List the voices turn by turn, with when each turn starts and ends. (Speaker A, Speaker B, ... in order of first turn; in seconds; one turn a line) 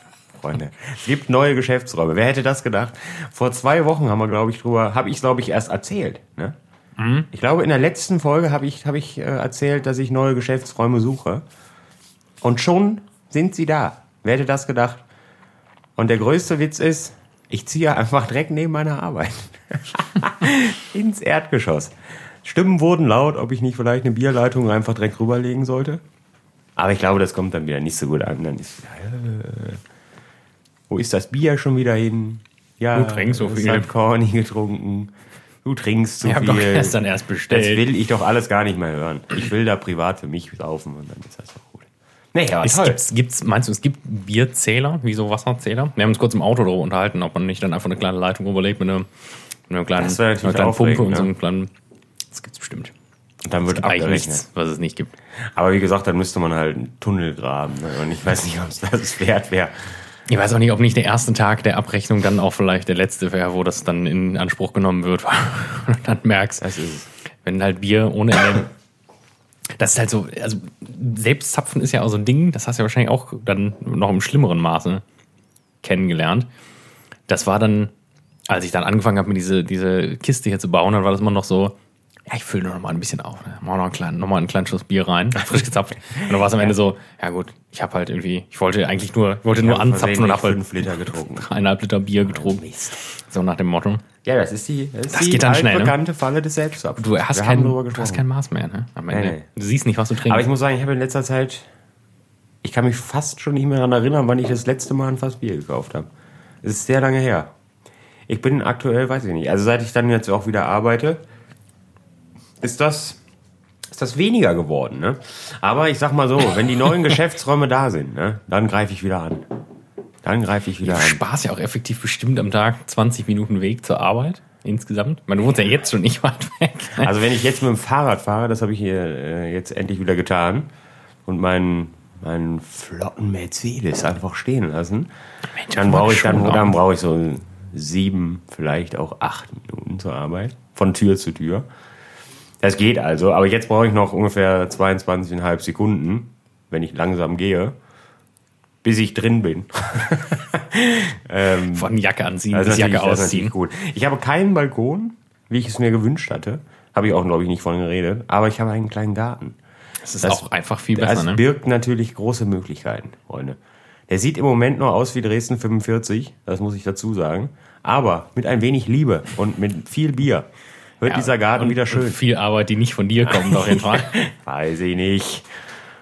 Speaker A: 0.4-6.6
Speaker B: 7.0-7.3
Speaker A: 7.3-11.4
Speaker A: 12.4-15.0
Speaker A: 16.0-26.0
Speaker A: 26.8-29.8
Speaker A: 30.9-35.1
Speaker B: 32.9-33.9
Speaker A: 35.6-37.0
Speaker B: 36.2-37.9
Speaker A: 37.5-43.0
Speaker B: 42.6-49.1
Speaker B: 49.7-51.7
Speaker A: 50.0-51.3
Speaker B: 52.3-52.9
Speaker A: 53.5-54.4
Speaker B: 53.6-55.1
Speaker A: 55.5-59.8
Speaker B: 60.3-66.7
Speaker A: 66.6-67.1
Speaker B: 67.4-68.7
Speaker B: 69.8-75.0
Speaker B: 75.8-76.5
Speaker B: 77.3-77.9
Speaker B: 78.5-81.8
Speaker B: 82.3-94.0
Speaker A: 89.6-91.5
Speaker A: 92.2-93.0
Speaker A: 94.2-98.2
Speaker B: 95.1-96.0
Speaker B: 97.0-100.5
Speaker A: 99.1-99.5
Speaker A: 100.2-101.7
Speaker A: 102.6-106.1
Speaker A: 106.6-107.5
Speaker A: 108.3-111.2
Speaker A: 112.6-113.2
Speaker A: 113.9-119.5
Speaker A: 120.2-121.2
Speaker B: 120.8-127.1
Speaker A: 127.0-130.7
Speaker A: 131.3-135.1
Speaker B: 135.5-136.8
Speaker A: 135.7-141.7
Speaker A: 142.6-147.8
Speaker A: 148.8-151.9
Speaker B: 151.7-153.5
Speaker A: 152.5-159.6
Speaker B: 160.0-161.4
Speaker A: 160.2-163.6
Speaker A: 164.1-170.5
Speaker A: 171.0-172.2
Speaker B: 171.1-174.2
Speaker A: 173.2-175.5